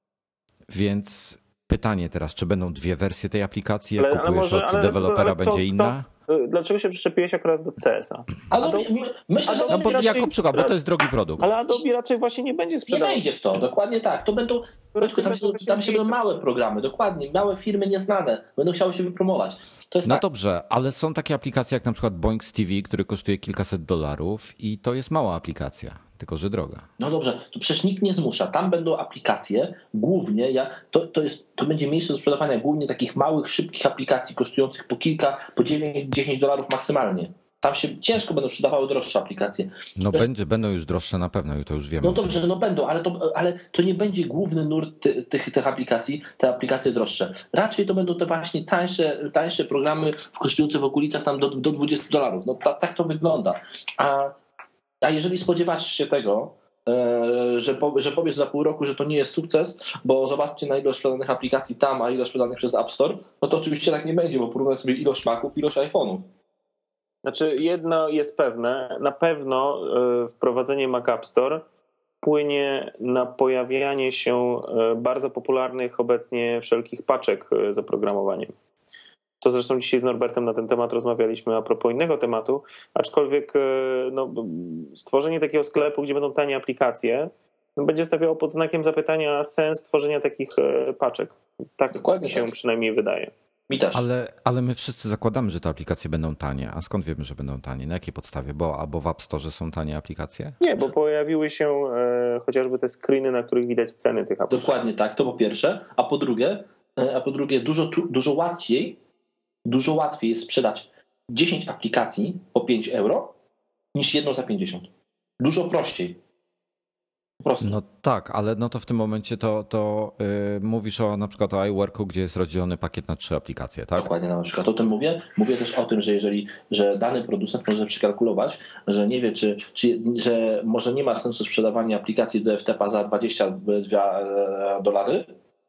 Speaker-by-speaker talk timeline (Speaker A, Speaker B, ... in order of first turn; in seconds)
Speaker A: 0.7-6.1, 9.7-11.5, 20.1-26.9, 40.0-42.4, 93.9-100.6, 117.6-124.1
Speaker B: 4.0-8.9, 9.5-10.8, 11.4-13.2, 14.9-16.2, 67.2-71.7, 72.2-78.5, 79.4-93.3, 100.6-104.7
Speaker C: 8.5-10.2, 12.9-20.2, 27.0-40.3, 42.0-54.4, 55.0-66.3, 91.9-92.5, 93.7-94.0, 104.5-109.0, 109.7-113.3, 113.9-116.2, 117.4-117.8, 124.0-135.3